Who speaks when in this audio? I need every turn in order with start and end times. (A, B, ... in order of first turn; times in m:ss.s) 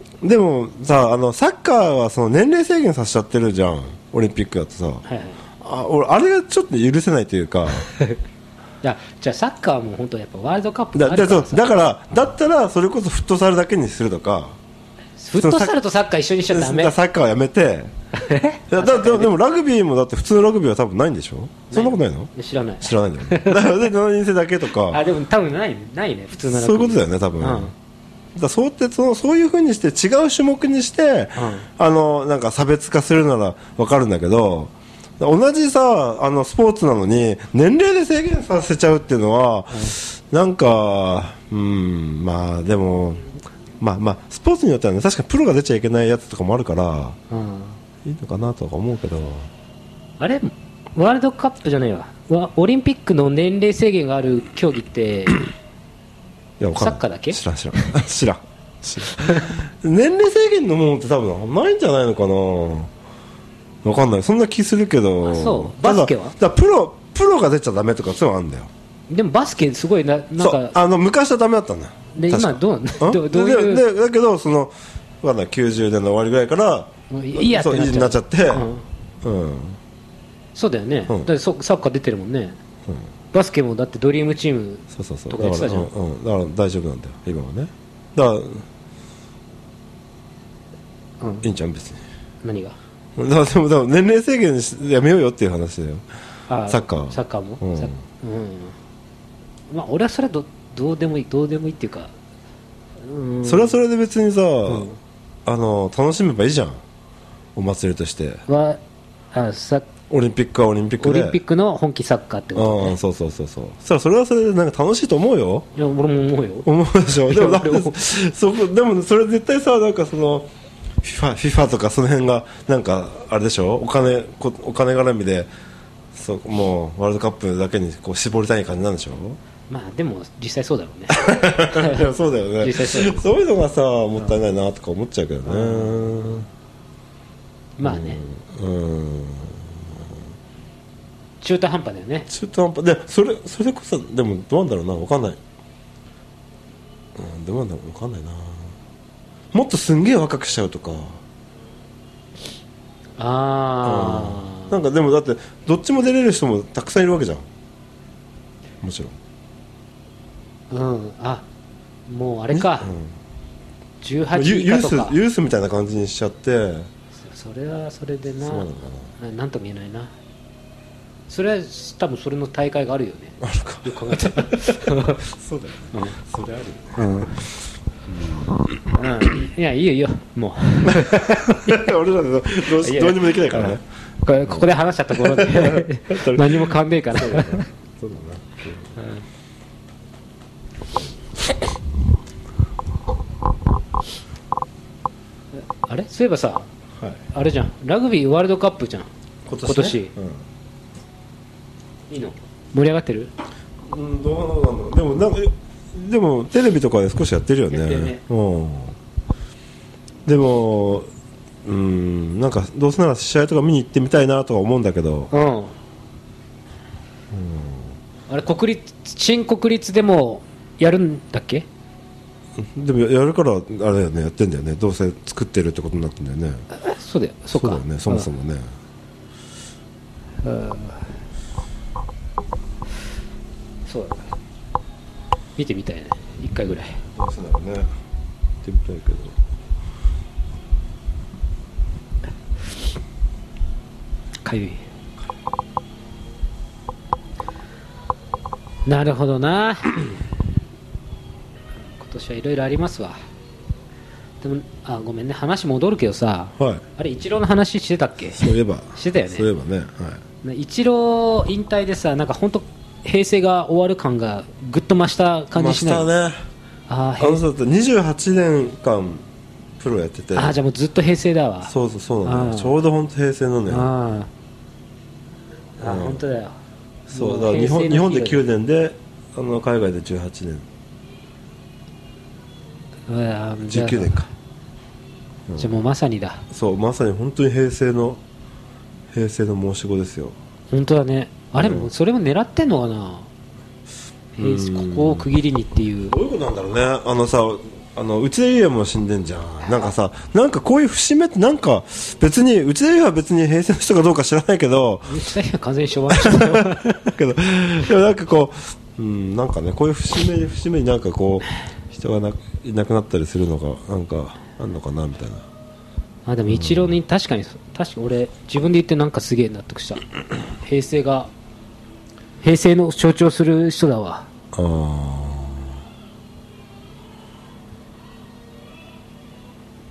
0:00.2-0:05.0 A
0:05.0-0:05.4 B
0:05.6-0:07.9 A
0:08.8-0:11.7 B
0:11.0-0:14.6 A
0:15.2-0:16.9 B
0:15.4-0:15.8 A
0:16.5-0:17.9 A
0:18.2-0:19.3 B
0:18.7-0:25.0 A
0:21.7-0:23.8 B
0:24.9-0:27.7 B
0:26.4-0:27.7 A
0:28.4-0:47.2 A
0:31.4-0:31.7 B
0:47.3-0:47.8 B
0:48.0-0:49.5 A
0:50.2-0:55.4 B
0:56.6-1:02.9 A
0:56.8-0:57.4 B
0:59.2-0:59.5 B
1:03.8-1:08.7 A
1:05.2-1:06.4 B
1:09.1-1:10.8 B
1:10.4-1:18.7 A
1:12.2-1:13.8 B
1:17.1-1:18.8 B
1:19.2-1:19.8 A
1:20.6-1:22.6 B
1:23.3-1:25.9 B
1:24.9-1:28.7 A
1:31.2-1:31.5 B
1:31.4-1:32.0 A
1:32.4-1:32.8 B
1:33.2-1:36.0 A
1:36.5-1:38.8 B
1:36.7-1:38.0 A
1:39.7-1:42.1 B
1:43.0-1:43.8 B
1:43.4-1:44.9 A
1:44.7-1:45.0 B
1:45.5-1:46.8 A
1:47.6-1:48.4 A
1:48.5-1:48.8 B
1:49.3-1:49.9 B
1:50.1-1:51.4 A
1:51.0-1:53.0 B
1:52.6-1:55.7 A
1:55.8-1:56.7 B
1:56.6-2:00.5 A
1:57.3-1:58.0 B
2:01.0-2:05.5 A
2:06.1-2:09.4 A
2:09.7-2:12.1 B
2:11.1-2:16.5 A
2:12.6-2:13.2 B
2:15.4-2:16.0 B
2:17.8-2:18.2 B
2:17.8-2:20.2 A
2:21.4-2:22.3 B
2:22.3-2:25.4 A
2:27.2-2:28.8 A
2:29.5-2:31.2 A
2:33.2-2:34.8 B
2:33.8-2:37.5 A
2:38.8-2:39.2 A
2:40.7-2:41.5 B
2:42.1-2:42.9 B
2:42.5-2:43.2 A
2:44.0-2:45.2 B
2:44.3-2:46.9 A
2:47.2-2:50.1 B
2:48.4-2:49.1 A
2:51.3-2:55.2 B
2:53.4-2:57.1 A
2:55.9-2:56.2 B
2:57.0-2:57.4 B
2:58.1-2:58.7 A
2:58.9-3:01.8 B
3:00.9-3:03.8 A
3:02.8-3:07.7 B
3:04.5-3:08.9 A
3:09.0-3:09.2 B
3:15.8-3:16.7 B
3:17.3-3:19.1 B
3:19.5-3:20.4 A
3:19.6-3:20.1 B
3:22.1-3:23.3 B
3:23.8-3:29.0 A
3:27.7-3:28.2 B
3:30.3-3:31.1 A
3:31.6-3:35.3 A
3:35.3-3:35.7 B
3:37.3-3:38.0 A
3:38.3-3:41.7 B
3:42.6-3:46.7 A
3:46.7-3:48.3 B
3:47.5-3:48.7 A
3:50.4-3:51.1 B
3:53.9-3:54.4 B
3:55.6-3:57.0 B
3:57.1-3:57.9 A
3:58.6-3:59.4 A
4:04.4-4:04.8 B
4:08.9-4:10.2 B
4:11.9-4:13.2 B
4:14.4-4:19.5 B
4:16.6-4:16.8 A
4:18.4-4:20.2 A
4:20.4-4:26.1 B
4:25.5-4:26.4 A
4:26.9-4:27.4 B
4:27.2-4:29.3 A
4:29.8-4:30.6 A
4:30.4-4:31.7 B
4:31.7-4:33.9 A
4:32.2-4:32.7 B
4:33.7-4:34.3 B
4:35.8-4:36.6 B
4:35.8-4:36.2 A
4:37.1-4:40.7 A
4:37.1-4:38.4 B
4:43.1-4:44.3 B
4:43.6-4:44.3 A
4:45.5-4:45.7 A
4:45.6-4:46.4 B
4:46.5-4:48.2 A
4:49.1-4:50.4 A
4:50.7-4:53.3 B
4:51.6-4:51.9 A
4:54.4-4:56.2 B
4:54.4-4:55.3 A
4:56.1-5:05.2 A
5:05.1-5:07.2 B
5:06.1-5:15.5 A
5:16.3-5:21.3 B
5:16.5-5:17.0 A
5:22.4-5:24.3 B
5:24.5-5:25.7 A